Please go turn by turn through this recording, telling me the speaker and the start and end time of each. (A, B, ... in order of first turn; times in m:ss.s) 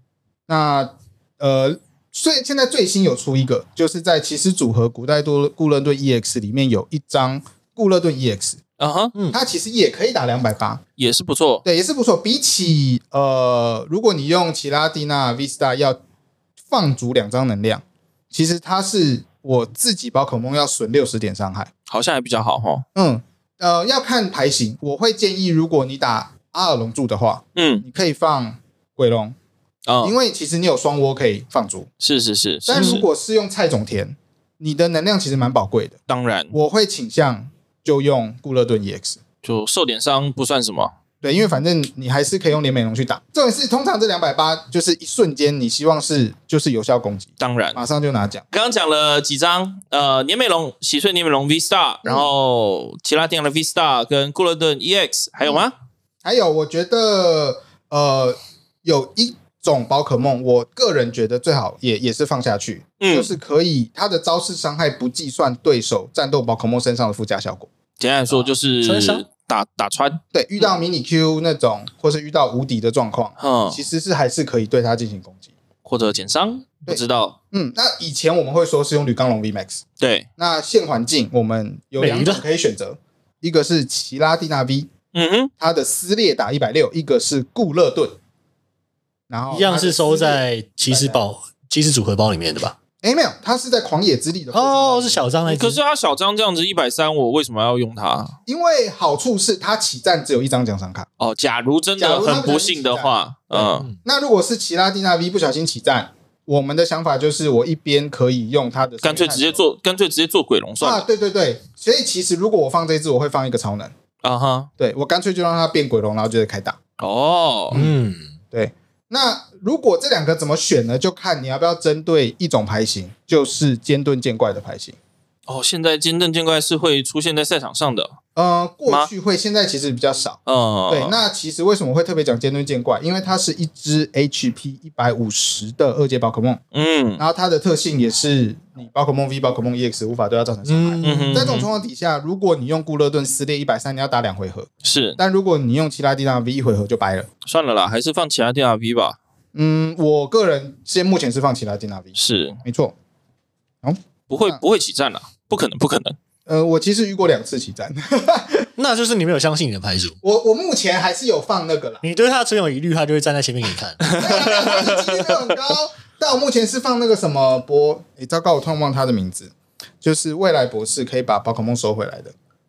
0:00.5-0:08.6 A
0:08.8-0:09.1 B
0:09.3-0:10.8 A
0:11.0-0:11.6 B
0:11.6-0:16.0 A
0:16.7-0:21.7 A
0:21.9-0:22.8 B
0:23.0-0:29.4 A
0:27.6-0:27.8 B
0:29.9-0:30.2 B
0:30.0-0:31.9 A
0:32.0-0:33.0 B
0:32.7-0:36.0 A
0:32.8-0:33.0 C
0:36.1-0:36.6 B
0:36.5-0:39.2 A
0:39.4-0:40.9 B
0:41.2-0:48.4 A
0:47.4-0:47.8 B
0:48.5-0:55.8 B
0:52.0-0:52.3 A
0:56.2-1:07.7 A
1:03.0-1:03.3 B
1:08.0-1:10.2 B
1:08.4-1:09.2 C
1:10.3-1:15.5 A
1:13.4-1:13.8 B
1:15.8-1:17.4 B
1:16.9-1:19.8 A
1:20.0-1:20.3 B
1:20.4-1:24.9 A
1:22.0-1:22.4 C
1:25.1-1:25.5 B
1:25.6-1:28.2 A
1:29.3-1:31.2 A
1:29.5-1:32.8 C
1:33.0-1:35.3 A
1:34.5-1:35.8 C
1:35.5-1:38.4 B
1:38.5-1:41.1 A
1:41.2-1:43.9 B
1:42.0-1:49.6 A
1:43.6-1:44.0 C
1:49.0-1:51.1 B
1:50.8-1:53.9 A
1:54.2-1:54.7 B
1:54.8-1:56.8 A
1:57.0-1:57.8 B
1:57.7-1:58.3 C
1:58.5-2:05.0 A
2:05.5-2:08.1 B
2:08.4-2:16.6 A
2:10.5-2:11.2 B
2:16.7-2:17.2 B
2:17.2-2:27.3 A
2:20.6-2:21.5 C
2:21.0-2:21.7 B
2:24.8-2:25.2 B
2:27.5-2:29.2 B
2:29.6-2:32.9 A
2:32.2-2:32.6 B
2:33.8-2:34.6 A
2:34.3-2:36.2 B
2:36.5-2:38.7 A
2:38.8-2:40.2 C
2:40.2-2:42.0 A
2:42.0-2:44.2 C
2:44.0-2:45.5 B
2:44.2-2:52.3 A